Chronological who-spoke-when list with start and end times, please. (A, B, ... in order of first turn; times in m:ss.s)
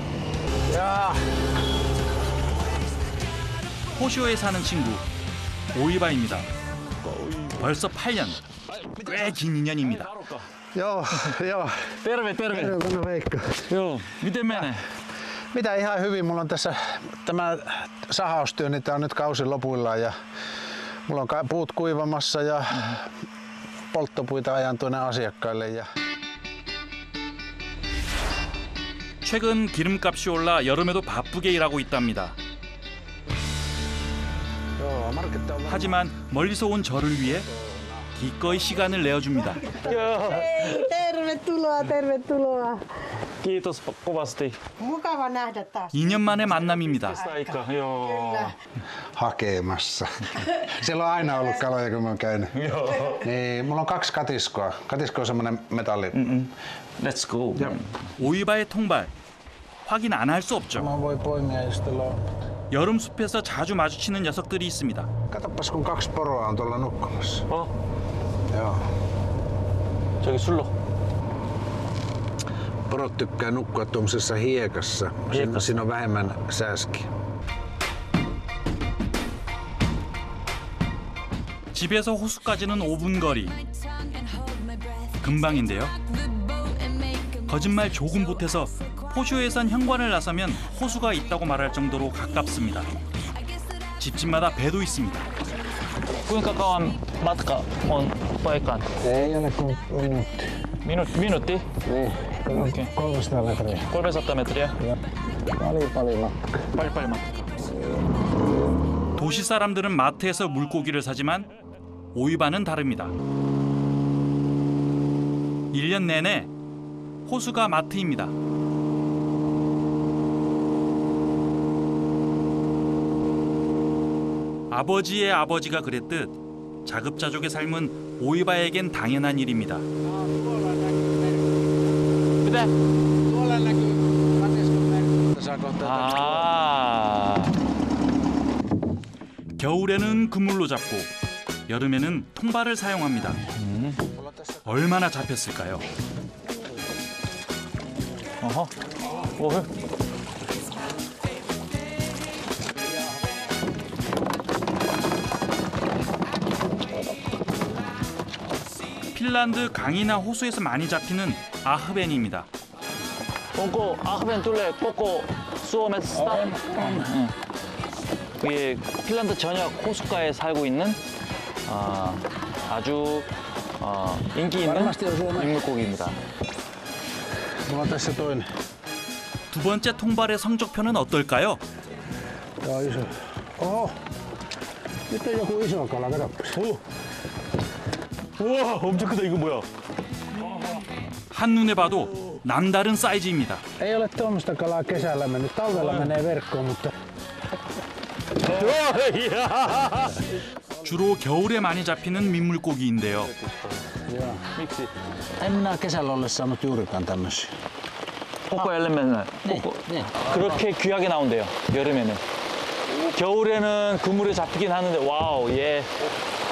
0:00.7-0:01.3 A
0:03.9-0:05.0 B
0:05.7-0:06.5 B
0:07.0-0:07.5 C
0:07.6-0:08.4 B
0:09.1-0:10.1 B
0:10.7-0:13.7 A
0:12.0-0:12.7 C
0:13.7-0:14.8 C
0:15.5-0:20.1 A
0:21.1-0:23.1 A
0:23.9-0:25.9 A
0:29.2-0:32.4 B
0:34.8-0:36.0 A
0:35.7-0:37.5 B
0:37.5-0:38.1 A
0:38.2-0:39.8 B
0:39.7-0:42.9 D
0:39.9-0:40.4 C
0:43.4-0:44.6 C
0:44.8-0:46.3 D
0:45.9-0:47.2 B
0:47.1-0:48.4 C
0:48.1-0:48.6 D
0:49.2-0:52.5 A
0:52.6-0:53.2 C
0:53.1-0:56.2 A
0:56.1-0:57.8 C
0:57.6-0:57.8 A
0:58.2-0:59.1 B
0:59.8-1:00.9 B
1:00.7-1:02.2 A
1:02.7-1:05.1 B
1:05.3-1:07.5 A
1:08.5-1:08.9 A
1:10.2-1:10.7 C
1:12.9-1:17.1 A
1:15.3-1:15.6 C
1:21.7-1:23.6 B
1:25.2-1:26.0 B
1:27.4-1:32.9 B
1:34.0-1:35.3 B
1:36.2-1:38.9 C
1:39.0-1:40.6 A
1:40.8-1:41.7 C
1:41.8-1:43.9 A
1:42.6-1:42.9 C
1:43.9-1:44.8 C
1:45.6-1:46.7 A
1:46.8-1:47.4 C
1:49.2-1:51.5 B
1:52.2-1:53.1 B
1:55.7-1:56.5 B
1:57.2-1:58.3 B
2:04.7-2:09.9 B
2:10.0-2:11.8 A
2:12.4-2:12.7 C
2:13.2-2:16.6 A
2:15.8-2:17.5 C
2:19.6-2:21.1 B
2:21.7-2:23.4 B
2:24.1-2:24.8 A
2:24.6-2:25.8 B
2:28.4-2:28.7 C
2:29.4-2:29.6 C
2:39.1-2:42.5 B
2:43.6-2:47.3 C
2:46.2-2:47.1 A
2:48.4-2:51.0 C
2:51.7-2:53.3 C
2:53.8-2:56.2 C
2:54.6-2:55.6 A
2:57.6-2:58.5 A
2:59.5-3:01.6 B
3:02.6-3:04.0 A
3:05.1-3:06.7 A
3:08.4-3:09.7 C
3:10.4-3:10.7 C
3:11.3-3:13.6 B
3:13.8-3:16.9 A
3:18.4-3:20.2 C
3:20.8-3:23.3 B
3:23.4-3:23.9 C
3:24.1-3:24.5 A
3:24.6-3:24.9 C
3:25.4-3:27.5 A
3:28.5-3:32.2 C
3:29.5-3:30.7 A
3:33.0-3:35.9 C